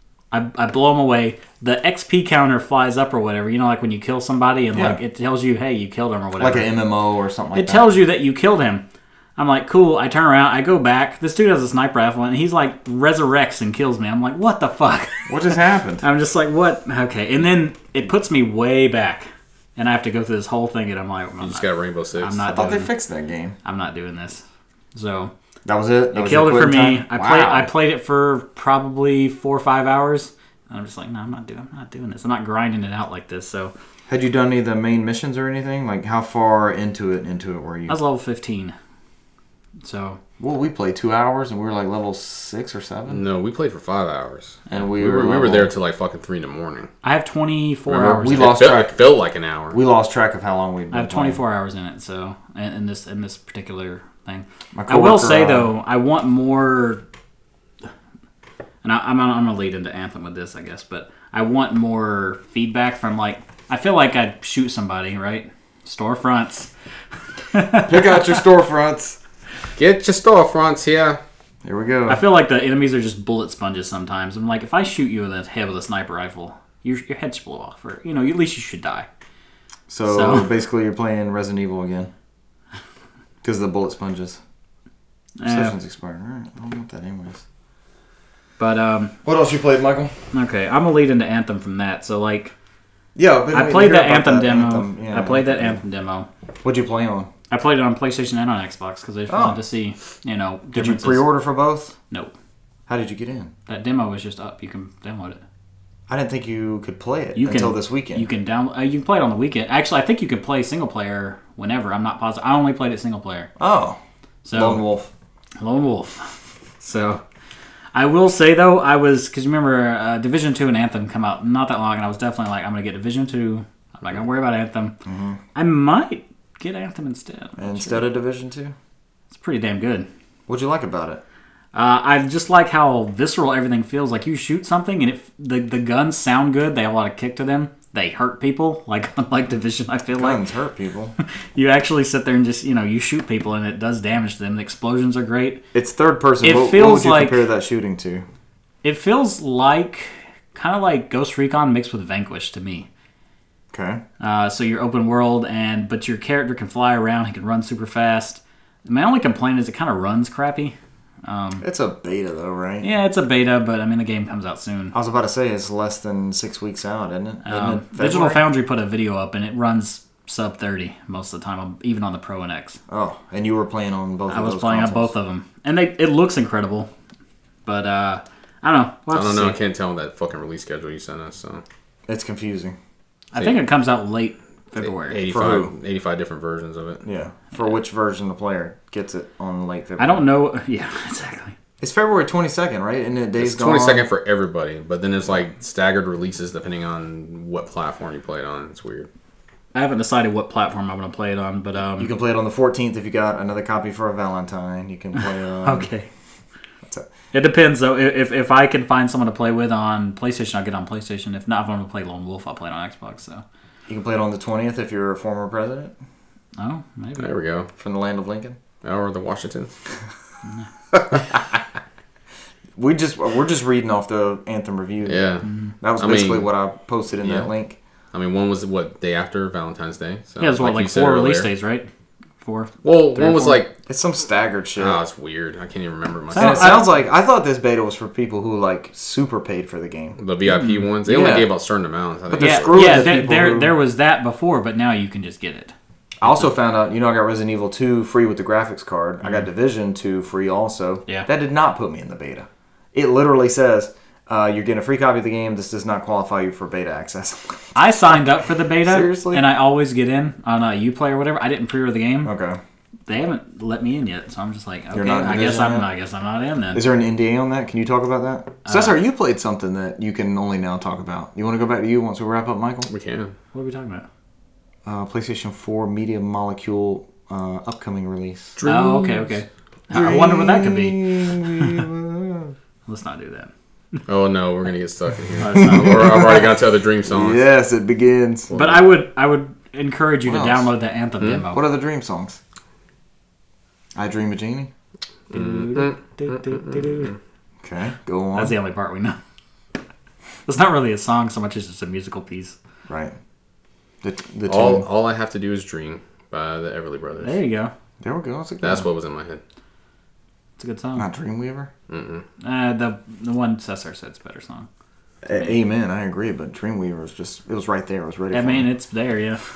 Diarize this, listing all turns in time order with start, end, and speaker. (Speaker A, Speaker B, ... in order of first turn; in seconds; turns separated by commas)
Speaker A: 0.3-6.7, Speaker B: 4.7-5.0, Speaker B: 6.4-7.9, Speaker A: 7.5-8.8, Speaker A: 9.4-22.9, Speaker B: 15.3-16.0, Speaker C: 21.4-22.4, Speaker B: 22.5-23.6, Speaker A: 23.6-24.4, Speaker A: 24.9-25.3, Speaker B: 25.6-27.7, Speaker A: 26.1-33.7, Speaker B: 34.1-38.0, Speaker A: 37.9-38.8, Speaker A: 39.8-40.2, Speaker B: 40.4-43.2, Speaker C: 43.1-46.9, Speaker B: 44.7-45.7, Speaker A: 47.0-48.6, Speaker C: 47.9-49.8, Speaker B: 48.2-49.0, Speaker B: 49.7-51.4, Speaker A: 50.9-57.0, Speaker B: 54.7-55.7, Speaker A: 58.8-66.7, Speaker A: 67.5-68.0, Speaker B: 67.8-69.2, Speaker C: 69.8-71.2, Speaker B: 71.6-72.2, Speaker A: 72.1-79.1, Speaker B: 79.9-82.1, Speaker A: 80.0-80.5, Speaker B: 83.4-84.4, Speaker A: 85.4-85.8, Speaker B: 85.5-87.4, Speaker A: 88.6-89.1, Speaker B: 89.2-90.1, Speaker A: 90.3-92.5, Speaker B: 93.2-95.8, Speaker A: 93.5-96.3, Speaker B: 96.6-97.3, Speaker A: 97.5-101.3, Speaker B: 99.3-99.6, Speaker B: 100.7-102.0, Speaker B: 102.9-103.5, Speaker A: 103.7-105.4, Speaker B: 106.1-108.3, Speaker A: 107.4-113.5, Speaker B: 113.6-114.0, Speaker A: 114.5-114.8, Speaker B: 114.5-115.1, Speaker A: 115.6-117.2, Speaker A: 117.9-125.0, Speaker B: 125.0-125.4, Speaker A: 125.5-128.1, Speaker B: 127.6-128.8, Speaker A: 129.3-130.1, Speaker B: 130.5-131.2, Speaker A: 131.7-140.4, Speaker B: 140.2-141.2, Speaker A: 141.6-145.6, Speaker B: 145.7-148.2, Speaker A: 146.4-147.5, Speaker A: 148.8-152.9, Speaker B: 153.7-154.0, Speaker A: 154.2-161.7, Speaker B: 161.6-162.9, Speaker A: 162.8-164.9, Speaker B: 164.9-168.4, Speaker A: 167.4-172.8, Speaker B: 172.9-175.1, Speaker A: 174.3-176.9, Speaker A: 177.7-179.6, Speaker C: 179.1-181.6, Speaker B: 182.1-182.8, Speaker A: 183.3-185.2, Speaker C: 183.4-183.6, Speaker C: 184.8-187.0, Speaker B: 185.3-185.7, Speaker B: 187.0-190.2, Speaker A: 190.0-191.6, Speaker B: 191.8-194.1, Speaker C: 193.4-199.1, Speaker A: 199.7-202.1, Speaker B: 202.0-205.9, Speaker A: 205.6-206.1, Speaker A: 207.3-213.4, Speaker B: 213.9-215.9, Speaker A: 216.6-217.3, Speaker C: 217.2-217.7, Speaker B: 217.8-218.6, Speaker C: 218.8-219.7, Speaker C: 220.9-221.2, Speaker B: 222.8-225.3, Speaker C: 225.1-226.5, Speaker A: 225.5-225.7, Speaker B: 225.8-227.8, Speaker C: 227.2-227.5, Speaker C: 228.1-231.5, Speaker A: 230.4-231.9, Speaker A: 232.4-233.7, Speaker C: 232.8-233.8, Speaker B: 233.9-235.0, Speaker C: 234.8-236.8, Speaker A: 236.3-236.9, Speaker B: 236.4-240.2, Speaker C: 240.2-243.1, Speaker B: 241.1-241.5, Speaker B: 242.3-243.8, Speaker A: 242.4-245.7, Speaker B: 246.2-257.6, Speaker A: 257.8-262.3, Speaker B: 258.8-259.5, Speaker B: 262.2-262.6, Speaker A: 263.1-266.8, Speaker B: 264.9-265.9, Speaker B: 266.7-272.9, Speaker A: 268.7-269.0, Speaker C: 272.9-273.3, Speaker A: 273.5-274.1, Speaker B: 274.9-278.6, Speaker C: 278.6-279.4, Speaker A: 278.6-281.8, Speaker B: 279.9-282.5, Speaker A: 282.9-283.5, Speaker C: 284.1-287.4, Speaker A: 285.4-286.2, Speaker B: 285.6-286.5, Speaker B: 287.1-288.5, Speaker C: 288.5-288.8, Speaker A: 288.5-291.6, Speaker B: 290.3-290.7, Speaker B: 291.5-292.4, Speaker B: 293.9-294.7, Speaker A: 295.3-297.1, Speaker C: 295.3-297.1, Speaker B: 297.6-298.6, Speaker A: 298.4-299.2, Speaker A: 300.5-302.6, Speaker B: 302.9-303.1, Speaker B: 304.0-304.9, Speaker C: 304.5-307.4, Speaker A: 307.2-307.7, Speaker B: 308.0-308.9, Speaker C: 308.6-309.4, Speaker A: 310.6-311.1, Speaker B: 311.0-311.7, Speaker C: 311.9-312.2, Speaker A: 312.4-314.7, Speaker B: 315.2-318.7, Speaker A: 318.3-319.4